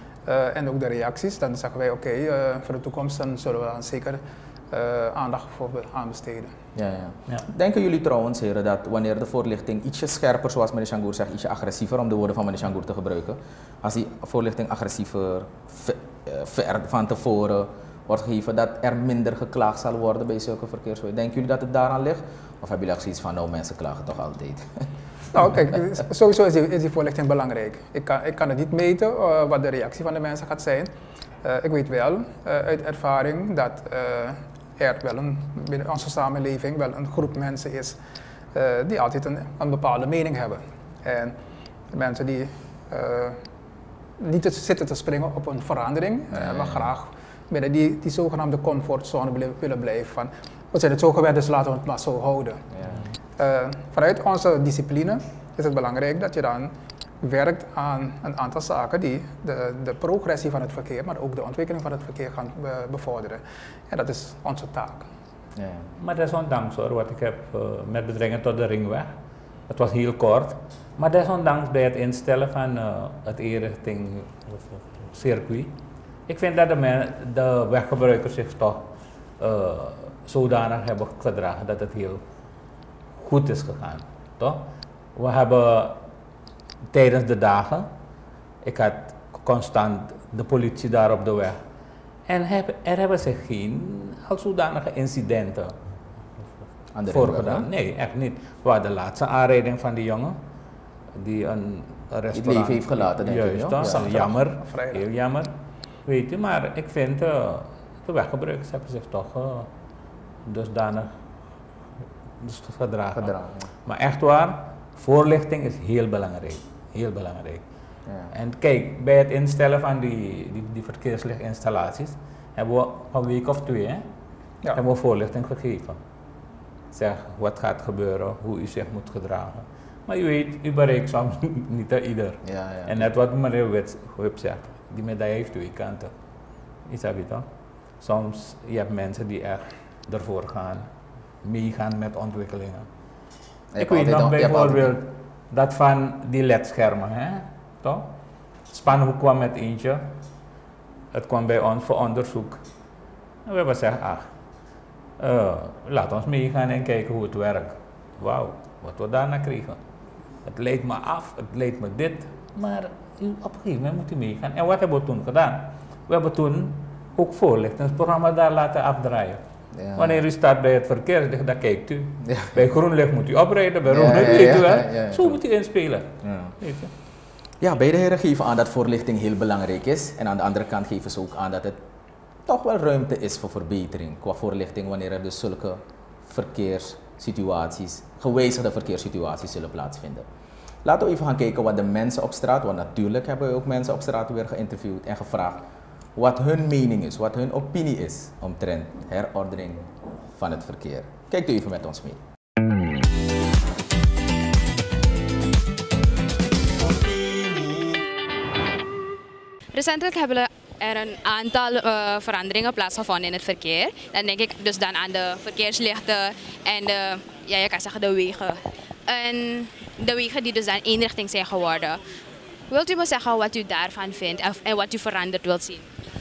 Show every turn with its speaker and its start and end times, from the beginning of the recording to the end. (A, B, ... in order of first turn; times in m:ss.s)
0:00.2-0:06.5 A
0:06.7-0:24.9 B
0:25.3-0:38.0 A
0:38.5-0:41.4 A
0:41.9-0:43.4 A
0:44.2-0:52.6 A
0:46.3-0:46.9 B
0:52.7-0:53.0 B
0:53.4-1:05.1 A
1:05.6-1:05.9 B
1:06.0-1:09.1 C
1:09.7-1:15.7 C
1:16.3-1:22.2 C
1:23.2-1:26.0 C
1:26.9-1:27.9 C
1:28.6-1:31.6 C
1:32.3-1:35.7 C
1:36.9-1:37.7 B
1:37.1-1:40.4 C
1:41.1-1:45.5 C
1:42.3-1:44.4 B
1:43.9-1:45.0 A
1:46.0-1:49.7 C
1:50.4-1:51.1 C
1:52.4-1:57.6 C
1:53.1-1:53.7 B
1:58.0-1:58.3 B
1:58.3-2:04.0 C
2:04.7-2:06.0 C
2:06.9-2:16.1 C
2:12.4-2:13.1 B
2:16.8-2:17.5 C
2:18.0-2:20.9 C
2:21.4-2:22.9 C
2:23.7-2:25.0 B
2:23.8-2:28.1 C
2:28.7-2:30.1 C
2:31.1-2:32.6 C
2:33.4-2:34.3 C
2:35.2-2:39.8 C
2:40.4-2:49.4 C
2:49.7-2:50.2 B
2:49.9-2:56.9 C
2:52.2-2:52.6 B
2:53.8-2:55.4 B
2:56.2-2:56.5 B
2:57.6-3:01.8 B
3:02.4-3:10.3 B
3:10.8-3:22.2 B
3:29.7-3:42.0 D
3:42.7-3:45.9 D